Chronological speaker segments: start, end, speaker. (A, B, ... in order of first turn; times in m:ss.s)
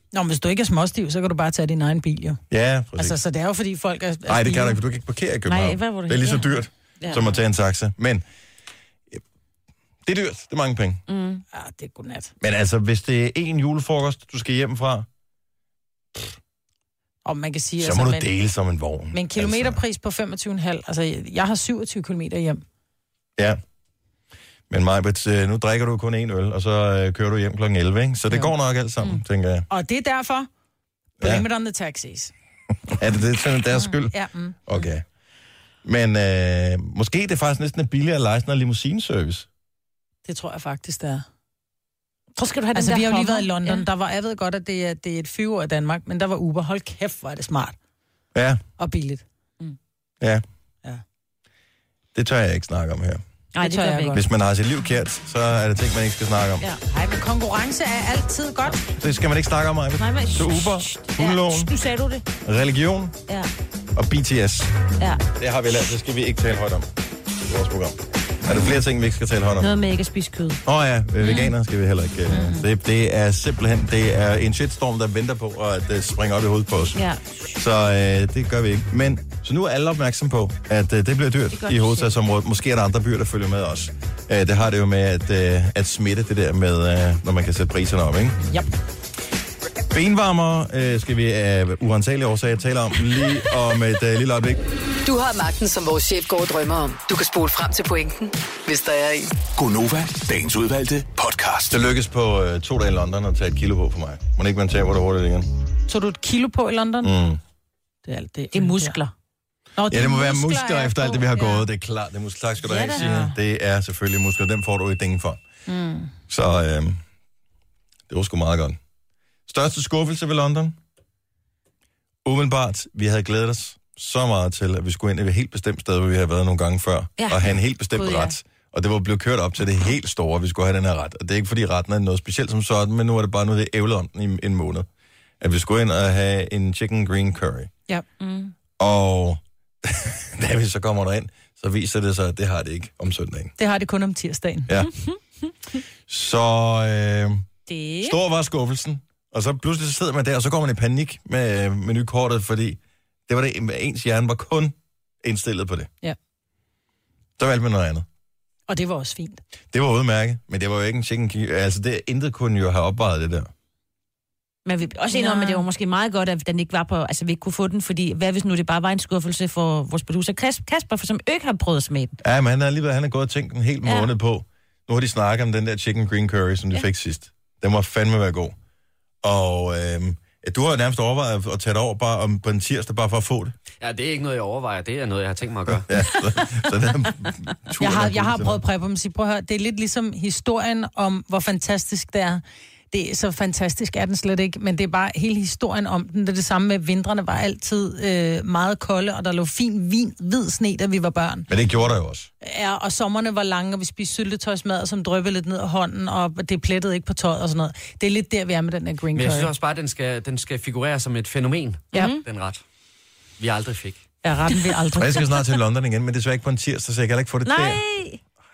0:00.1-0:02.4 A
0:02.5-0:03.2 B
0:03.0-0:04.8 A
0:04.3-0:08.2 B
0:05.5-0:07.3 C
0:10.0-0:11.0 B
0:11.1-0:11.4 C
0:11.5-0:12.3 A
0:12.4-0:15.1 B
0:17.2-0:18.3 A
0:17.8-0:19.8 B
0:19.1-0:22.6 A
0:24.7-0:29.7 B
0:29.7-0:30.5 A
0:31.2-0:31.4 B
0:31.2-0:32.3 A
0:32.9-0:35.0 B
0:33.7-0:34.6 A
0:35.8-0:39.5 B
0:40.2-0:41.3 A
0:42.4-0:43.8 C
0:42.7-0:47.8 A
0:48.3-0:48.6 B
0:48.8-0:49.2 A
0:52.1-0:53.2 B
0:53.6-0:54.2 C
0:53.6-0:54.2 A
0:54.1-0:56.6 B
0:56.9-0:58.8 A
0:58.9-1:01.7 B
1:00.0-1:02.2 C
1:02.4-1:03.2 B
1:04.0-1:04.7 B
1:05.4-1:06.9 B
1:07.5-1:09.7 B
1:09.6-1:10.6 C
1:10.6-1:17.0 B
1:11.2-1:11.5 C
1:17.0-1:17.4 C
1:17.5-1:28.4 B
1:21.6-1:22.1 C
1:29.9-1:34.6 B
1:35.0-1:39.3 D
1:39.6-1:41.8 E
1:41.7-1:45.5 B
1:45.9-1:47.1 A
1:47.0-1:47.4 B
1:48.0-1:49.0 A
1:48.5-1:49.1 C
1:49.8-1:51.6 A
1:49.9-1:55.4 B
1:52.6-1:53.2 C
1:53.0-1:53.4 A
1:55.7-1:56.1 A
1:56.3-1:57.0 B
1:58.1-1:58.8 B
1:59.5-2:00.8 B
2:02.2-2:14.9 B
2:07.2-2:07.5 C
2:08.0-2:08.4 A
2:15.4-2:17.7 B
2:18.2-2:18.5 C
2:18.8-2:23.5 B
2:23.6-2:24.7 A
2:24.9-2:25.2 C
2:26.1-2:27.4 B
2:27.7-2:28.2 A
2:28.0-2:35.9 B
2:37.4-2:38.1 B
2:38.7-2:39.4 A
2:39.7-2:43.5 B
2:44.7-2:52.1 C
2:45.1-2:45.6 A
2:52.2-2:58.6 B
2:53.8-2:54.1 C
2:59.2-3:03.5 B
3:03.8-3:05.9 F
3:05.9-3:08.6 B
3:07.8-3:21.5 A
3:21.5-3:22.3 B
3:22.4-3:29.5 A
3:29.1-3:32.6 F
3:31.9-3:32.2 C
3:31.9-3:32.2 A
3:33.4-3:34.0 F
3:34.2-3:35.3 A
3:35.0-3:37.8 B
3:37.4-3:38.2 C